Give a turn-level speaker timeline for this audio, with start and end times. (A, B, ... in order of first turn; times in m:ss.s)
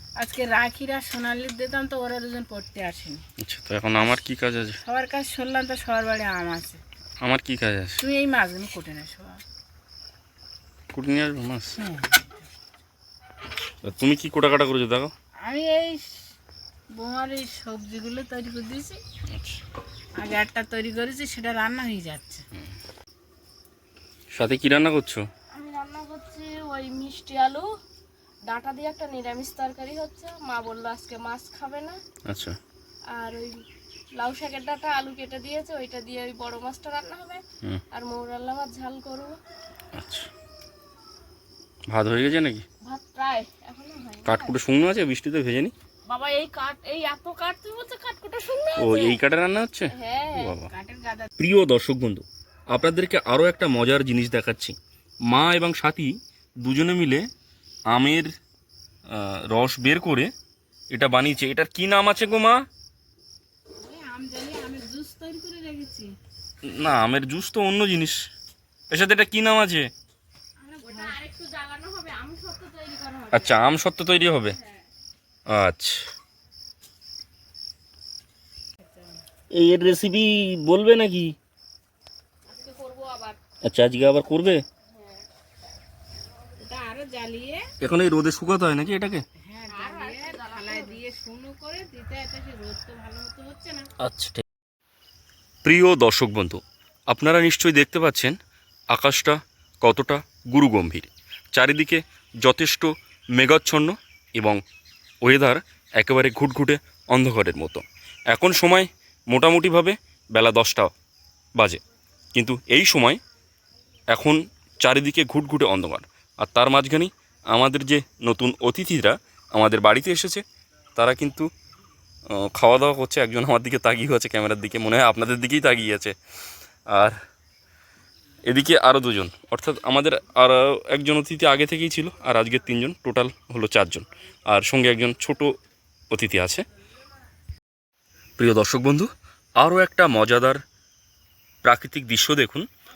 0:00.2-0:03.2 A
0:03.4-0:04.8 B
0:04.8-0:06.8 A
0:07.2-0:08.0 B
0:08.0-0:09.4 A
0:10.9-0:11.8 B
0:11.8-0:12.5 A
0:13.8-0:15.1 B
0:15.4-0:16.3 A
0:16.9-0:19.0 A
0:19.3-0:19.6 B
0:20.2-0:22.4 A
0:24.3-0:25.2 B
0:25.5-0:27.7 C
0:28.5-0:32.0 C
0:32.3-0:32.6 B
0:33.2-0:33.5 C
0:34.1-0:39.4 C
0:39.9-0:40.3 B
0:41.9-0:42.6 B
0:42.8-0:44.6 C
0:44.2-0:45.7 B
0:46.1-0:49.2 C
0:48.8-0:50.7 B
0:49.9-0:50.6 C
0:50.7-0:51.3 A
0:51.4-0:54.8 B
0:55.3-0:57.2 B
0:57.9-0:58.3 B
0:59.1-1:00.3 B
1:00.9-1:02.7 B
1:03.8-1:06.1 A
1:06.6-1:08.3 B
1:08.9-1:09.9 B
1:10.6-1:11.2 A
1:10.8-1:13.7 C
1:13.3-1:14.6 B
1:15.5-1:16.1 B
1:18.8-1:19.2 A
1:19.5-1:21.4 B
1:22.5-1:23.4 C
1:23.6-1:24.6 B
1:26.6-1:27.6 A
1:27.8-1:29.2 B
1:29.4-1:33.9 A
1:29.7-1:31.0 C
1:34.0-1:34.4 B
1:35.6-1:38.3 B
1:38.9-1:44.6 B
1:45.2-1:50.9 B
1:52.4-1:53.2 B
1:54.1-2:00.4 B
2:01.0-2:01.5 B
2:02.3-2:06.2 B
2:06.9-2:07.2 B
2:08.5-2:15.5 B
2:16.1-2:16.6 B
2:18.4-2:20.6 B
2:21.6-2:22.6 B